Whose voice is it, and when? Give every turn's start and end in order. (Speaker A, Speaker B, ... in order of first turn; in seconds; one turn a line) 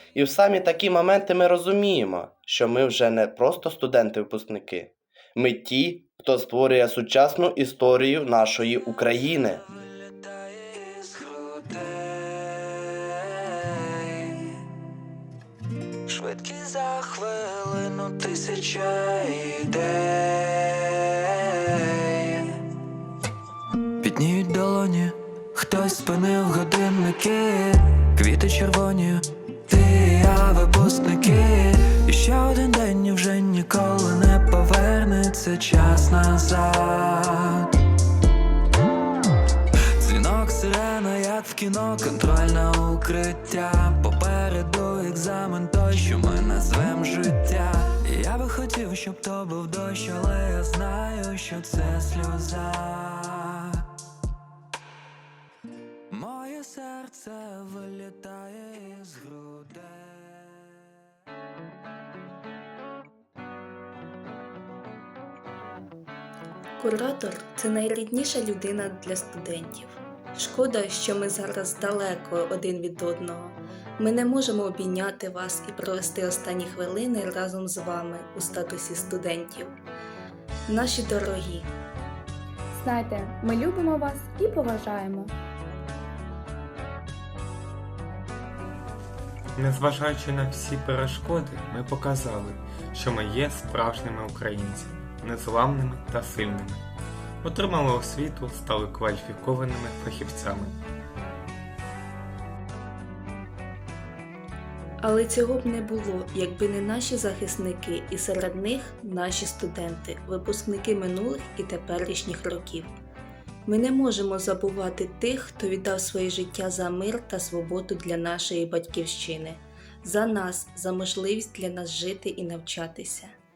Speaker A: 0.1-9.6
Speaker B: 9.7-14.6
Speaker B: 16.1-22.6
Speaker B: 24.0-37.7
Speaker B: 40.0-53.9
Speaker B: 56.1-60.5
Speaker C: 66.8-79.7
Speaker C: 80.7-81.7
Speaker D: 82.7-85.3
Speaker E: 89.6-96.9
Speaker E: 97.4-100.8
Speaker C: 105.0-112.9
Speaker C: 113.7-123.4